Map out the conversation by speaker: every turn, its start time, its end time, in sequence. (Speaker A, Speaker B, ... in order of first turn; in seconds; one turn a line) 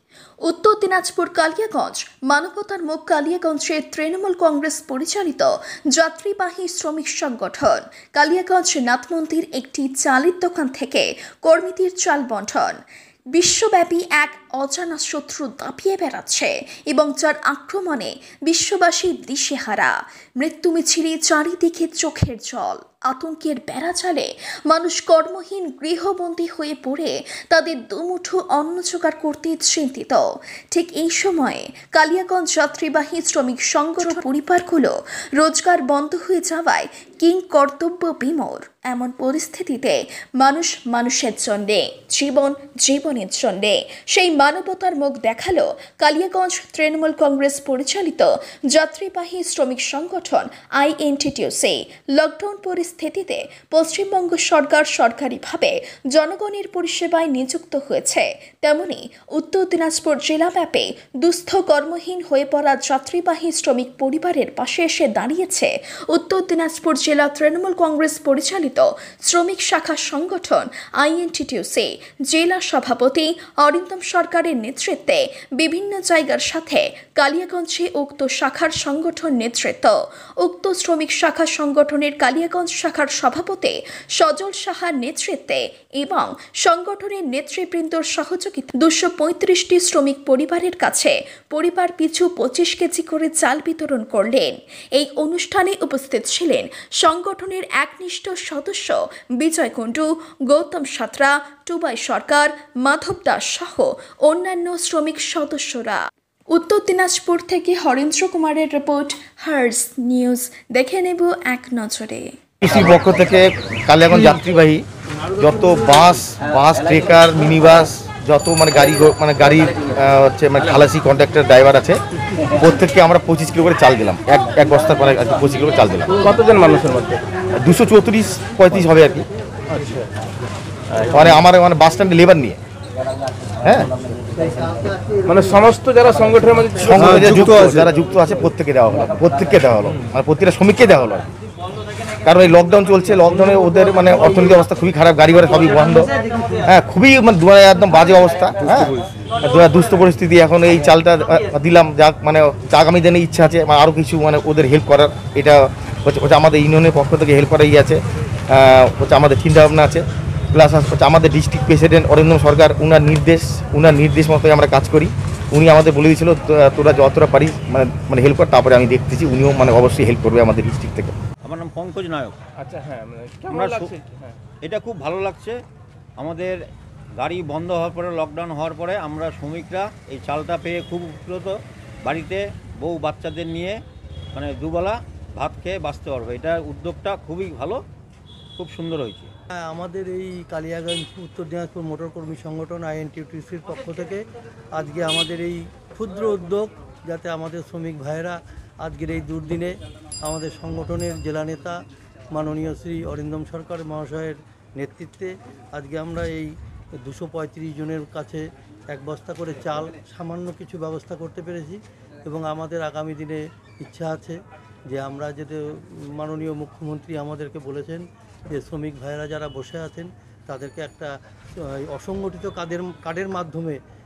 Speaker A: 0.4-12.8
Speaker A: 13.3-106.0
Speaker A: 106.5-112.3
Speaker B: 112.6-114.8
Speaker B: 115.4-122.0
Speaker B: 122.6-126.1
Speaker C: 126.2-127.2
Speaker B: 127.6-129.2
Speaker C: 129.7-130.1
Speaker C: 130.9-131.2
Speaker B: 131.1-132.6
Speaker B: 133.6-133.9
Speaker C: 135.2-137.7
Speaker B: 136.8-141.2
Speaker B: 142.2-146.1
Speaker B: 146.6-171.2
Speaker D: 171.4-172.4
Speaker C: 172.6-174.4
Speaker D: 173.5-174.0
Speaker D: 174.6-175.6
Speaker D: 176.2-176.6
Speaker D: 177.2-183.8
Speaker D: 184.3-187.8
Speaker D: 188.6-189.3
Speaker E: 189.5-201.8
Speaker E: 202.3-214.4
Speaker E: 214.9-223.8